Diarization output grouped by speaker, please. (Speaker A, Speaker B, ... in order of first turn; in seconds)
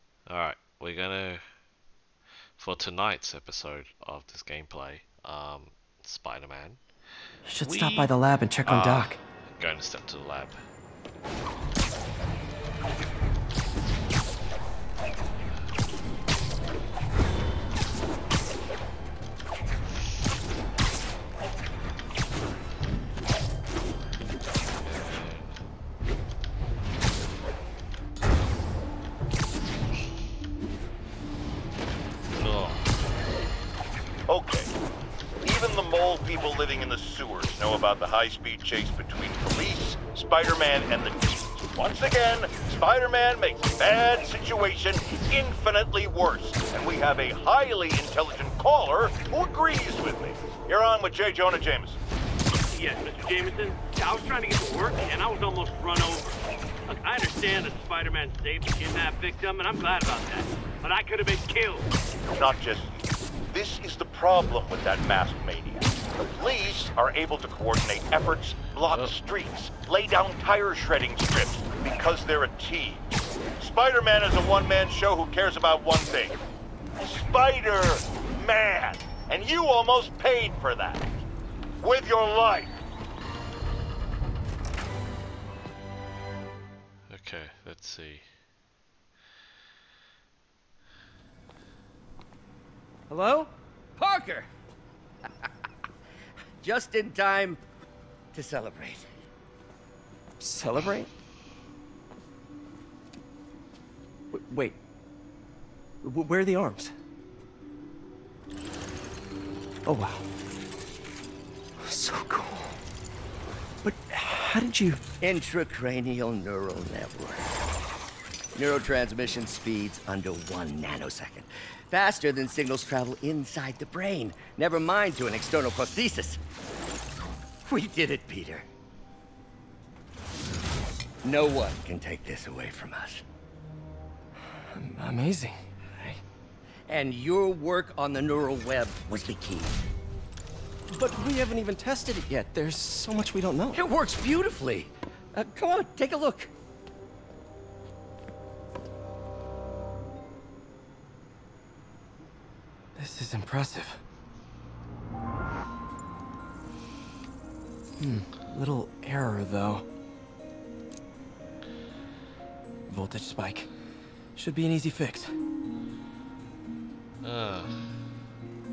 Speaker A: 0.3-1.4, 2.6-6.8, 7.6-8.1, 8.6-10.6, 24.8-25.6, 32.4-32.9, 68.9-69.1, 87.1-88.3, 167.2-168.0
Speaker B: 7.5-9.2, 93.1-93.5, 100.4-101.1, 104.3-104.8, 106.0-106.9, 109.8-110.2, 111.8-112.8, 113.8-115.0, 134.7-136.2, 140.9-143.8, 152.9-154.0, 158.0-159.8, 162.9-163.7, 164.3-165.3
Speaker C: 34.3-34.7, 35.4-52.0, 62.3-73.1, 73.6-76.4, 77.0-81.1, 81.8-82.8
Speaker D: 52.7-61.9
Speaker E: 94.0-94.5, 96.6-97.6, 98.3-99.1, 115.2-117.5, 118.5-126.4, 127.7-128.7, 131.2-133.2, 136.9-139.8, 143.7-146.5